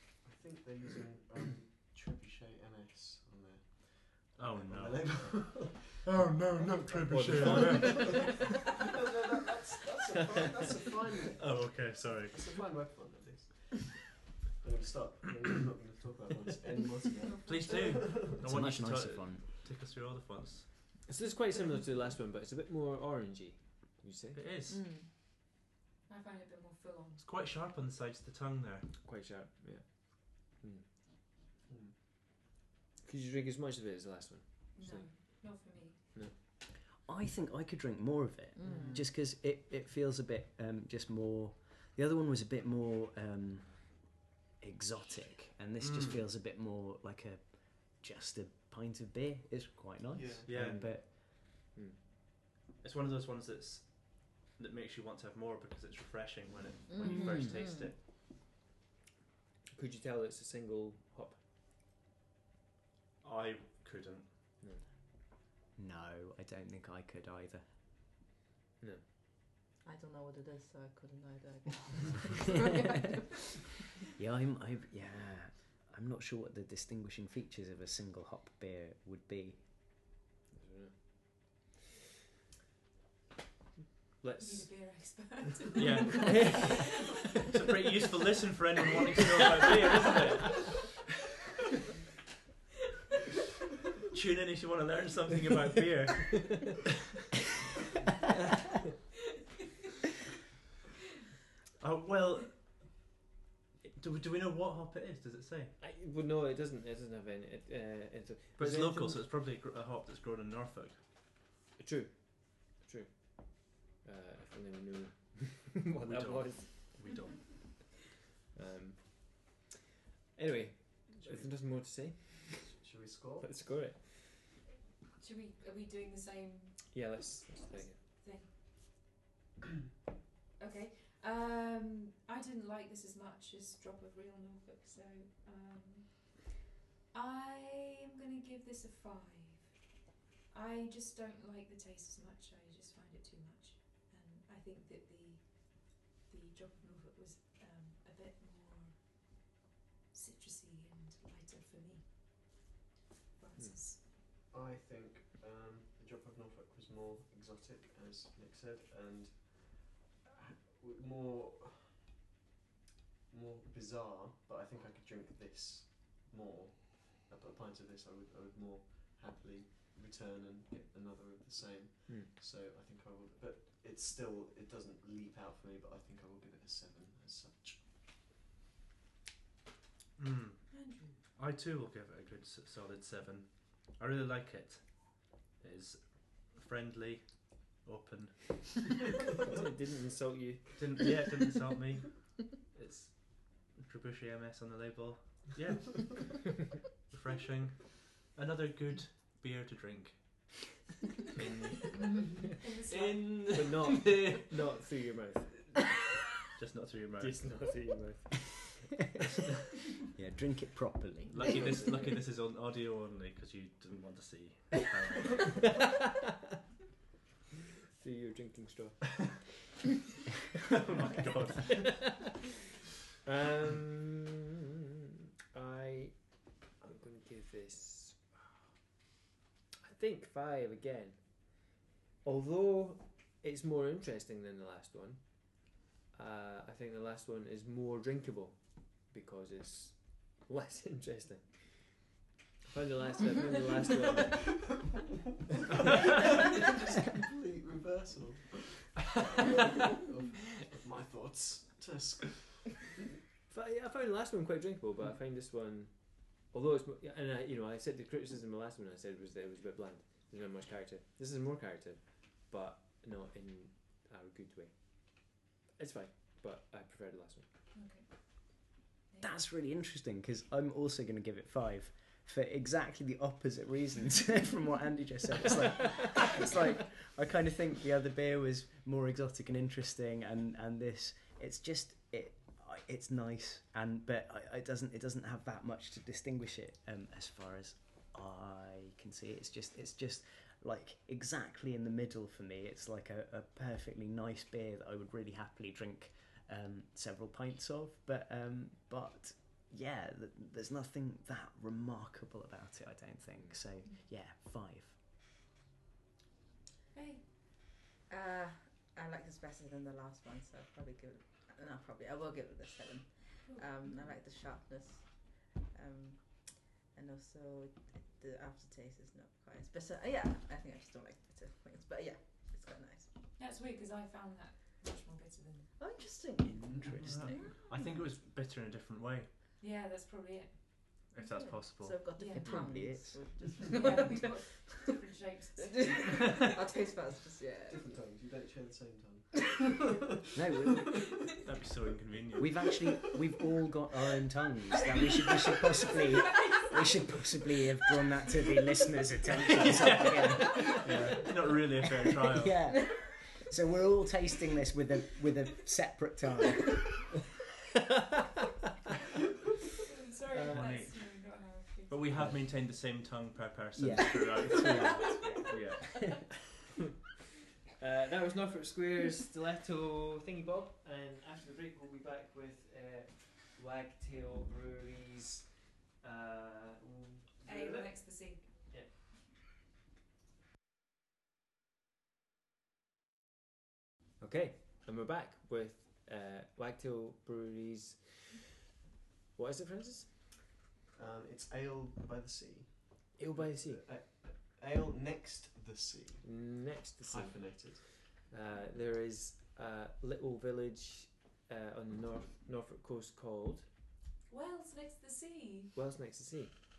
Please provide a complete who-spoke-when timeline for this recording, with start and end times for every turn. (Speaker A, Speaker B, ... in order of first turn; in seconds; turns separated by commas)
Speaker A: 0.2-6.2, Speaker B: 4.4-8.3, Speaker A: 6.8-18.4, Speaker C: 7.0-8.4, Speaker B: 11.4-12.5, Speaker B: 17.4-20.9, Speaker D: 18.3-19.5, Speaker C: 21.1-24.4, Speaker B: 24.3-24.8, Speaker E: 24.7-25.1, Speaker F: 26.1-27.2, Speaker B: 27.2-28.9, Speaker C: 29.0-30.8, Speaker C: 33.0-35.2, Speaker F: 34.8-36.0, Speaker D: 37.0-51.1, Speaker E: 38.6-38.9, Speaker B: 45.8-46.2, Speaker A: 50.1-50.5, Speaker B: 50.5-50.8, Speaker C: 50.5-51.1, Speaker B: 52.8-58.0, Speaker E: 56.9-57.7, Speaker D: 57.1-57.5, Speaker C: 59.7-61.4, Speaker B: 63.2-64.3, Speaker D: 65.8-67.7, Speaker E: 69.8-73.6, Speaker D: 72.7-73.0, Speaker D: 74.2-79.7, Speaker C: 80.5-81.4, Speaker C: 84.2-84.9, Speaker F: 84.4-87.3, Speaker B: 85.7-86.7, Speaker C: 86.2-86.7, Speaker B: 87.5-91.0, Speaker B: 94.1-96.8, Speaker B: 101.8-102.9, Speaker B: 104.0-105.8, Speaker C: 105.8-109.2, Speaker B: 108.6-111.0, Speaker C: 111.8-116.9, Speaker B: 116.0-117.6, Speaker C: 118.5-119.5, Speaker C: 120.3-122.5, Speaker A: 122.6-123.5, Speaker C: 123.4-124.3, Speaker F: 125.2-126.8, Speaker C: 126.9-128.0, Speaker F: 128.2-128.5, Speaker F: 130.6-136.5, Speaker F: 137.1-139.8, Speaker F: 140.5-149.0, Speaker F: 150.1-152.1, Speaker F: 153.4-154.0, Speaker A: 154.5-162.1, Speaker A: 163.3-177.8, Speaker B: 180.2-180.7, Speaker F: 180.7-181.2, Speaker B: 181.3-189.0, Speaker C: 189.4-190.8, Speaker B: 190.8-196.5, Speaker B: 197.1-200.6, Speaker C: 201.3-202.5, Speaker B: 201.4-202.0, Speaker F: 202.6-203.6, Speaker B: 202.9-204.4, Speaker C: 203.3-205.7, Speaker B: 206.5-207.4, Speaker C: 207.2-208.9, Speaker D: 210.1-211.8, Speaker B: 211.3-215.8, Speaker C: 218.0-219.4, Speaker B: 220.8-222.1, Speaker C: 221.7-222.3, Speaker C: 223.2-224.3, Speaker C: 225.5-228.4, Speaker C: 229.8-231.7, Speaker C: 232.2-242.1, Speaker C: 242.6-244.6, Speaker A: 244.7-245.0, Speaker A: 245.7-253.0, Speaker C: 253.5-267.5, Speaker F: 267.7-268.0, Speaker D: 269.2-305.0, Speaker F: 306.9-307.2, Speaker E: 308.1-323.1, Speaker F: 323.4-325.7, Speaker E: 325.8-327.7, Speaker D: 326.5-327.4, Speaker B: 326.9-329.3, Speaker F: 329.6-330.6, Speaker B: 331.1-332.0, Speaker E: 331.2-334.9, Speaker F: 332.2-332.5, Speaker D: 332.4-333.4, Speaker F: 333.7-336.3, Speaker E: 335.6-337.8, Speaker A: 337.7-340.9, Speaker D: 340.3-341.1, Speaker B: 341.4-342.6, Speaker D: 342.4-357.2, Speaker F: 346.4-346.7, Speaker B: 349.3-352.6, Speaker F: 359.8-362.1, Speaker C: 360.3-360.6, Speaker B: 360.5-361.2, Speaker B: 361.9-366.3, Speaker D: 363.8-366.2, Speaker F: 364.5-365.5, Speaker C: 367.8-378.0, Speaker F: 377.4-378.4, Speaker C: 378.6-378.9, Speaker C: 384.2-388.4, Speaker C: 389.4-390.1, Speaker A: 390.9-396.2, Speaker C: 393.2-393.8, Speaker C: 396.2-403.7, Speaker A: 397.1-397.8, Speaker F: 404.3-405.7, Speaker C: 405.7-406.5